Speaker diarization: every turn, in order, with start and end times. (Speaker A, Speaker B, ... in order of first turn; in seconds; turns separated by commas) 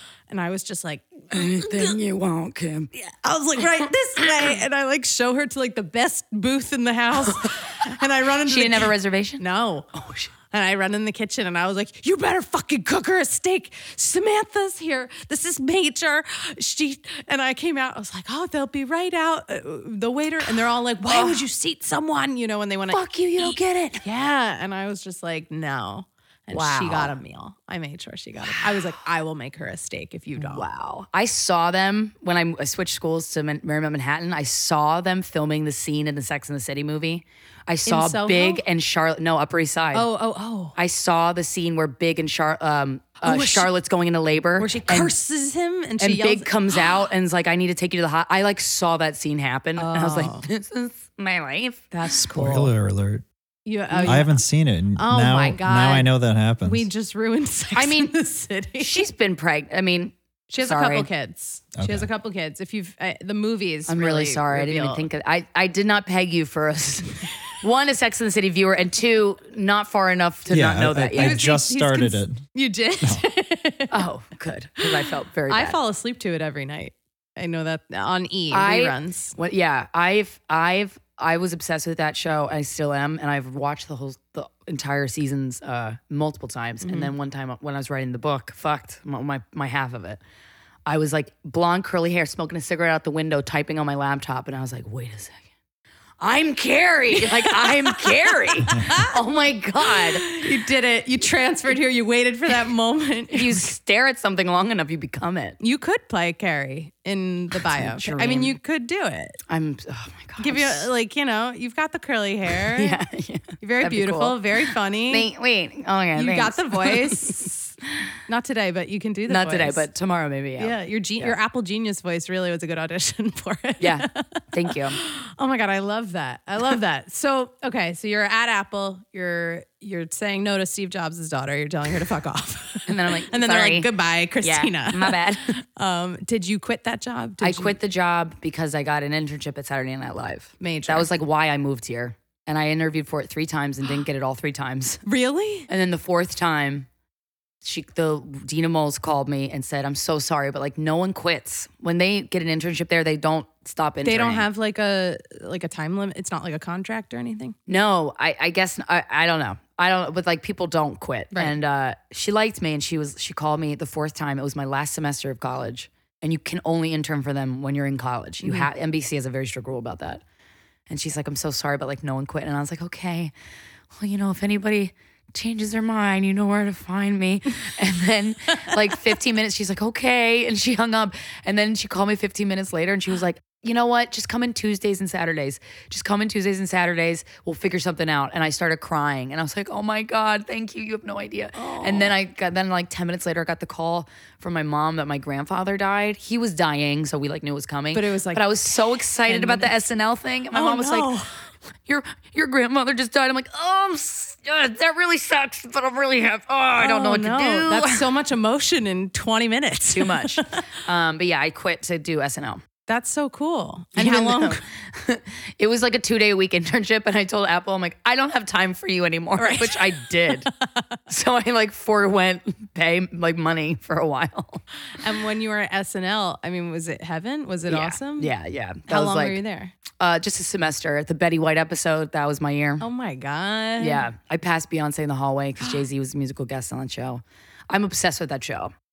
Speaker A: 0.3-1.9, Speaker B: 1.3-2.9, Speaker A: 2.9-9.9, Speaker B: 8.4-9.4, Speaker B: 9.9-10.3, Speaker A: 10.5-30.6, Speaker B: 21.1-21.4, Speaker B: 22.9-24.0, Speaker B: 26.5-27.1, Speaker B: 28.4-28.9, Speaker B: 30.4-40.1, Speaker A: 37.9-38.6, Speaker A: 39.9-40.7, Speaker B: 40.8-45.1, Speaker A: 43.2-43.7, Speaker A: 44.6-46.8, Speaker B: 46.0-52.6, Speaker A: 49.8-50.5, Speaker A: 51.9-52.7, Speaker C: 52.3-53.2, Speaker A: 53.6-54.4, Speaker B: 53.9-54.2, Speaker C: 54.0-56.9, Speaker A: 55.0-56.1, Speaker A: 56.6-59.0, Speaker B: 57.7-58.1, Speaker B: 58.8-61.1, Speaker A: 60.5-65.0, Speaker C: 61.7-62.1, Speaker B: 63.9-71.4, Speaker C: 70.5-72.4, Speaker A: 71.1-74.0, Speaker B: 73.9-75.8, Speaker A: 74.8-79.4, Speaker B: 78.5-90.2, Speaker A: 86.8-87.1, Speaker B: 90.8-95.3, Speaker B: 96.2-100.4, Speaker A: 97.1-99.1, Speaker A: 99.8-103.7, Speaker B: 103.3-105.6, Speaker A: 105.6-109.4, Speaker B: 107.7-108.5, Speaker B: 109.5-110.9, Speaker A: 110.4-113.0, Speaker B: 112.7-114.5, Speaker A: 113.6-115.3, Speaker B: 115.1-117.5, Speaker A: 116.2-117.7, Speaker A: 118.3-119.8, Speaker B: 119.3-121.4, Speaker A: 120.6-137.7, Speaker B: 123.8-125.0, Speaker B: 132.9-133.9, Speaker B: 134.4-135.5, Speaker B: 137.4-145.0, Speaker A: 140.6-141.1, Speaker A: 145.0-145.7, Speaker B: 145.7-146.9, Speaker B: 147.6-154.4, Speaker A: 154.0-157.5, Speaker B: 157.7-170.2, Speaker B: 170.9-173.3, Speaker B: 173.9-201.1, Speaker A: 191.5-192.1, Speaker A: 197.9-199.7, Speaker A: 200.5-201.4, Speaker B: 201.9-208.1, Speaker A: 206.8-210.6, Speaker B: 209.9-212.6, Speaker A: 212.9-214.6, Speaker B: 214.0-220.5, Speaker A: 219.4-220.9, Speaker B: 221.1-224.6, Speaker A: 225.0-228.3, Speaker B: 227.7-229.4, Speaker A: 228.9-229.7, Speaker B: 230.0-232.8, Speaker A: 232.8-234.1, Speaker B: 233.8-238.7